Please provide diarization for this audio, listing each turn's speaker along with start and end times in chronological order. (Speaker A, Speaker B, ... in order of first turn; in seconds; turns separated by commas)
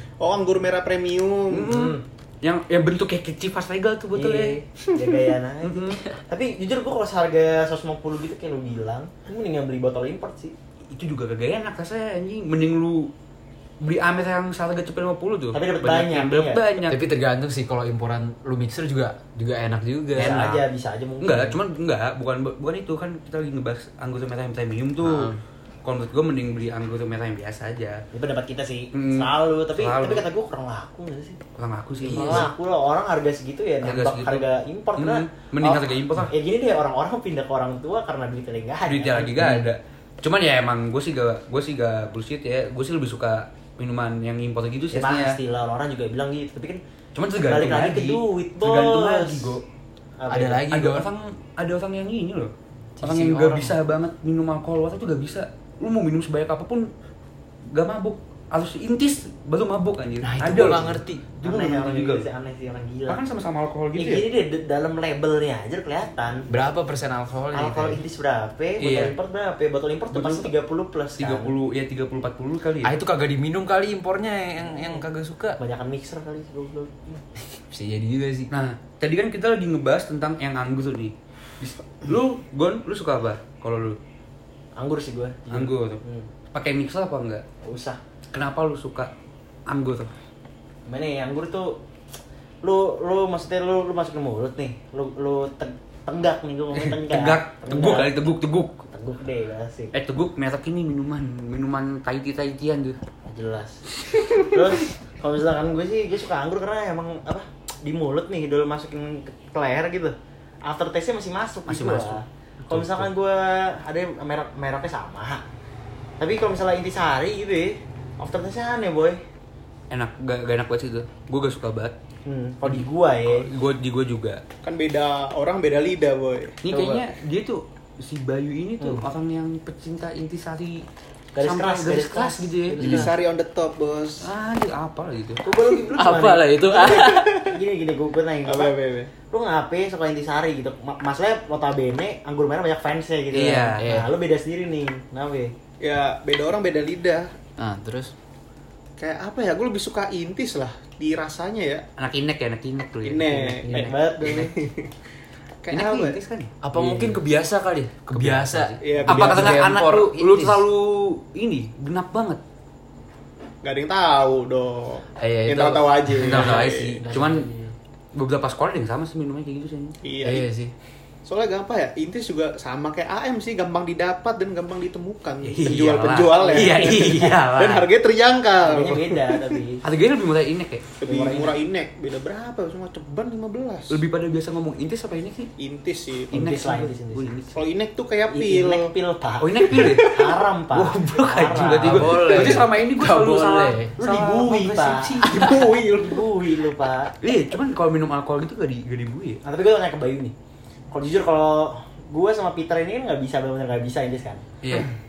Speaker A: 0.2-1.7, Speaker B: 1.5-4.6, Speaker C: 1.6-2.0, Speaker C: 4.1-10.5, Speaker B: 5.6-6.0, Speaker B: 10.9-13.1, Speaker B: 13.8-17.0, Speaker C: 15.5-16.6, Speaker D: 16.9-20.4, Speaker C: 20.1-21.6, Speaker B: 20.2-20.6, Speaker B: 21.2-25.3, Speaker D: 25.0-25.4, Speaker B: 25.8-28.0, Speaker C: 28.1-31.4, Speaker B: 28.9-30.2, Speaker B: 31.6-32.5, Speaker D: 32.1-32.5, Speaker C: 32.1-39.7, Speaker B: 33.8-34.4, Speaker B: 35.0-36.3, Speaker B: 38.9-45.4, Speaker C: 44.9-46.8, Speaker B: 47.1-49.6, Speaker C: 47.4-49.5, Speaker C: 50.2-50.6, Speaker D: 50.3-51.1, Speaker B: 50.7-56.9, Speaker D: 53.0-53.8, Speaker B: 57.7-62.2, Speaker D: 60.2-61.2, Speaker C: 61.4-63.2, Speaker B: 63.1-64.2, Speaker C: 63.9-66.5, Speaker D: 66.5-68.0, Speaker C: 67.5-71.5, Speaker B: 68.8-69.1, Speaker B: 70.1-70.5, Speaker B: 71.2-72.9, Speaker D: 72.8-75.6, Speaker C: 75.6-77.3, Speaker D: 77.7-78.5, Speaker B: 78.5-84.0, Speaker C: 84.8-86.3, Speaker B: 85.5-87.4, Speaker C: 87.6-88.0, Speaker B: 88.3-89.1, Speaker B: 89.7-90.1, Speaker C: 90.9-91.8, Speaker C: 92.6-98.2, Speaker B: 96.8-98.8, Speaker C: 98.9-99.9, Speaker B: 99.9-103.0, Speaker C: 103.2-110.1, Speaker C: 110.7-115.4, Speaker B: 111.7-113.1, Speaker C: 116.2-119.2, Speaker B: 119.9-121.9, Speaker C: 122.2-123.5, Speaker B: 122.6-124.4, Speaker A: 124.6-126.6, Speaker B: 126.6-130.8, Speaker C: 126.7-127.0, Speaker C: 131.3-133.1, Speaker B: 131.4-132.8, Speaker A: 132.8-134.3, Speaker B: 134.2-135.4, Speaker C: 135.4-138.7, Speaker D: 135.9-137.3, Speaker A: 138.5-139.1, Speaker C: 139.3-145.5, Speaker B: 143.3-143.8, Speaker D: 143.6-144.1, Speaker A: 145.8-147.3, Speaker D: 147.6-148.1, Speaker A: 149.0-151.8, Speaker B: 152.0-154.5, Speaker A: 153.0-154.9, Speaker C: 153.7-154.5, Speaker A: 155.6-156.2, Speaker B: 155.7-156.5, Speaker D: 156.6-160.6, Speaker C: 156.7-157.2, Speaker B: 158.1-162.4, Speaker A: 158.8-159.6, Speaker A: 163.6-167.0, Speaker D: 165.2-167.7, Speaker B: 166.2-167.5, Speaker B: 168.1-170.0, Speaker A: 170.0-170.5, Speaker D: 170.2-170.7, Speaker A: 171.2-179.5, Speaker B: 175.4-177.9, Speaker C: 176.5-176.9, Speaker C: 178.6-179.8, Speaker B: 179.8-180.8, Speaker A: 181.0-184.0, Speaker C: 181.0-181.5, Speaker B: 183.9-185.5, Speaker A: 185.6-186.3, Speaker C: 186.3-187.3, Speaker B: 186.3-187.6, Speaker A: 187.5-188.9, Speaker C: 188.3-192.6, Speaker B: 189.4-190.2, Speaker A: 189.7-190.3, Speaker B: 190.7-195.8, Speaker D: 191.8-193.9, Speaker C: 194.0-197.1, Speaker A: 195.2-196.2, Speaker B: 197.2-199.4, Speaker C: 199.4-200.3, Speaker C: 200.9-204.4, Speaker B: 204.6-204.9